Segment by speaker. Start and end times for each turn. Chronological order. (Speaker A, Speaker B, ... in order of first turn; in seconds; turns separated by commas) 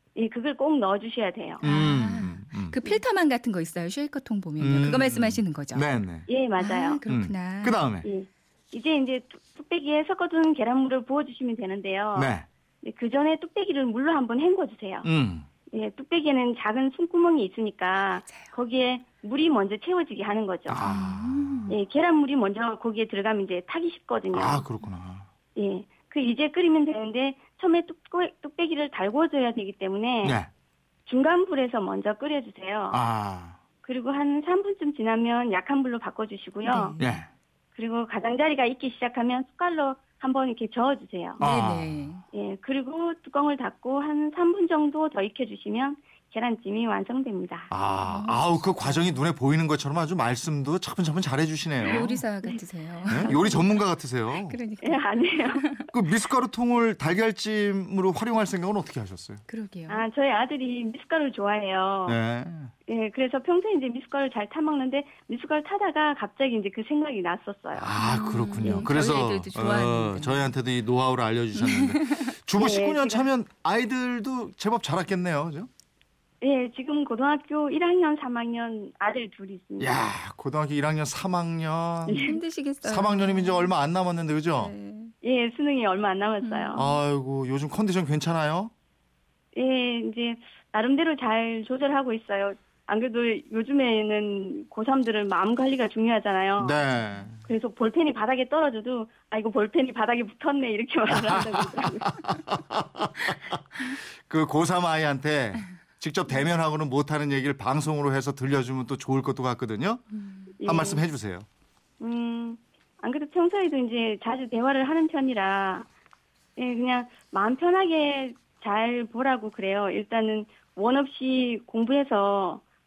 Speaker A: 0.1-1.6, Speaker B: 1.6-5.8, Speaker C: 1.6-2.8, Speaker C: 4.6-6.2, Speaker A: 6.3-7.0, Speaker B: 6.6-7.8, Speaker C: 7.0-8.1, Speaker A: 8.0-15.1, Speaker C: 12.1-12.4, Speaker C: 15.0-15.4, Speaker A: 15.7-20.8, Speaker B: 17.9-18.5, Speaker C: 20.7-21.7, Speaker B: 20.8-21.8, Speaker A: 21.7-24.6, Speaker C: 24.3-25.3, Speaker A: 25.5-30.4, Speaker C: 30.2-30.5, Speaker A: 31.1-33.0, Speaker C: 32.9-33.6, Speaker A: 33.8-36.9, Speaker B: 36.6-37.2, Speaker C: 37.0-37.3, Speaker A: 37.7-41.4, Speaker B: 41.4-42.2, Speaker C: 41.4-42.1, Speaker A: 42.3-47.7, Speaker C: 47.7-52.2, Speaker B: 48.0-49.0, Speaker B: 51.8-53.5, Speaker A: 51.9-52.6, Speaker C: 53.1-54.6, Speaker A: 53.2-53.7, Speaker B: 54.4-55.9, Speaker A: 54.8-55.6, Speaker C: 55.9-59.4, Speaker B: 59.5-60.0, Speaker A: 59.9-62.2, Speaker C: 62.1-62.7, Speaker A: 62.9-67.9, Speaker C: 67.7-75.7, Speaker B: 68.0-70.5, Speaker A: 68.6-68.9, Speaker B: 71.5-72.4, Speaker A: 72.6-73.3, Speaker A: 76.4-80.1, Speaker C: 79.8-82.2, Speaker A: 82.1-82.4, Speaker B: 82.1-83.7, Speaker C: 82.8-84.7, Speaker B: 84.5-85.1, Speaker A: 85.2-86.8, Speaker B: 86.4-87.0, Speaker C: 86.7-88.7, Speaker A: 89.5-96.8, Speaker C: 96.6-97.4, Speaker B: 97.0-97.3, Speaker A: 97.5-102.1, Speaker C: 101.1-110.0, Speaker B: 110.1-110.5, Speaker A: 110.6-111.0, Speaker C: 110.6-111.5, Speaker A: 112.0-115.9, Speaker A: 116.6-122.6